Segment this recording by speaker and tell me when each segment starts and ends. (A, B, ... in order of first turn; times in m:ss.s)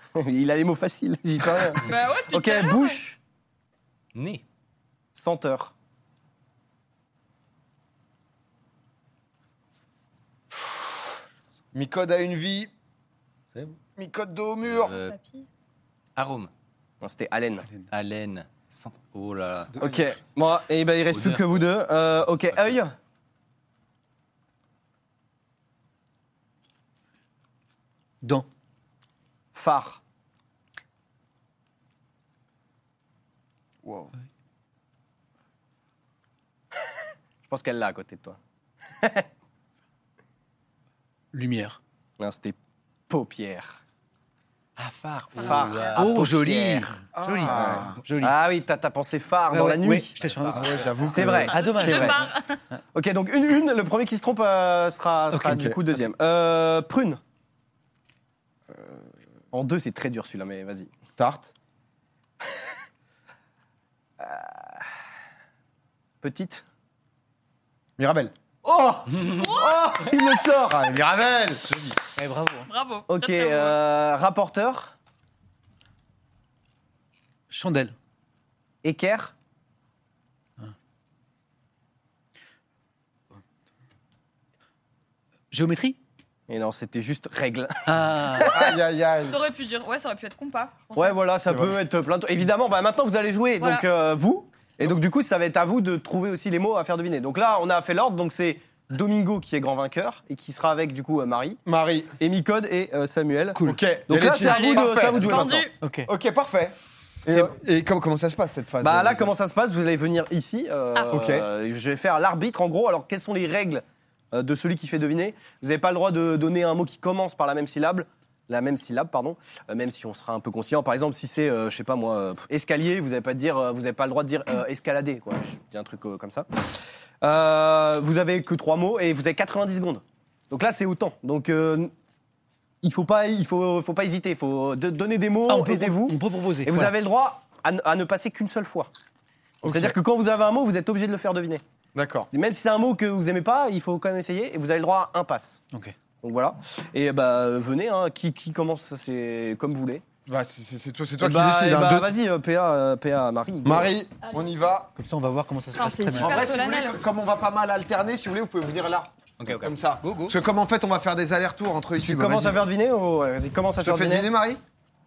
0:00.2-0:03.2 A
0:01.8-0:03.0 B
0:04.2-0:04.4 C
0:05.2-0:05.7 A
0:11.7-0:12.7 D
0:14.0-0:14.9 D
0:14.6-0:15.2 C
0:15.0-0:15.5 B
0:16.2-0:16.5 C
0:17.0-0:17.7 A
0:17.9-0:19.8 C
0:19.8-0:23.0 A
0:21.1-0:21.6 C
0:22.4-0:22.7 C
0:29.5-0:30.0 A
0:33.8-0:34.1 D
0:37.4-0:38.4 A
0:38.9-0:39.3 A
0:41.3-0:41.8 E
0:42.2-0:42.6 A
0:43.1-0:43.8 A
0:44.8-0:48.4 E
0:45.4-0:50.2 A
0:45.5-0:46.0 B
0:45.5-0:46.0 C
0:47.1-0:48.0 D
0:49.5-0:52.3 E
0:50.5-0:51.6 D
0:51.0-0:52.3 A
0:51.5-0:52.6 B
0:52.9-0:57.2 A
0:55.3-0:56.0 E
0:55.4-0:55.8 D
0:59.5-1:00.9 A
1:01.2-1:01.5 D
1:04.2-1:04.8 A
1:06.2-1:06.6 A
1:08.0-1:08.3 D
1:08.6-1:10.9 A
1:09.3-1:10.1 B
1:10.7-1:12.0 D
1:12.2-1:12.7 E
1:12.7-1:13.8 B
1:13.1-1:15.0 A
1:17.5-1:17.9 E
1:18.8-1:19.3 A
1:25.5-1:26.0 E
1:26.5-1:28.7 A
1:27.9-1:28.6 E
1:28.4-1:29.4 D
1:29.3-1:31.2 B
1:31.0-1:41.6 A
1:31.4-1:31.8 D
1:33.6-1:33.8 B
1:41.7-1:42.2 D
1:42.2-1:45.7 A
1:43.6-1:45.5 D
1:44.4-1:45.8 B
1:45.8-1:46.1 E
1:46.1-1:49.3 D
1:48.8-2:11.9 A
1:51.1-1:51.5 D
2:12.8-2:18.9 A
2:15.5-2:17.0 E
2:19.6-2:20.0 D
2:19.6-2:21.6 A
2:22.0-2:22.3 D
2:22.3-2:25.6 A
2:26.2-2:30.0 A
2:30.3-2:32.1 D
2:31.2-2:33.9 A
2:33.6-2:34.9 D
2:35.0-2:36.4 E
2:35.8-2:37.0 B
2:36.1-2:42.7 D
2:39.4-2:40.4 C
2:42.0-2:44.3 A
2:43.8-2:44.6 D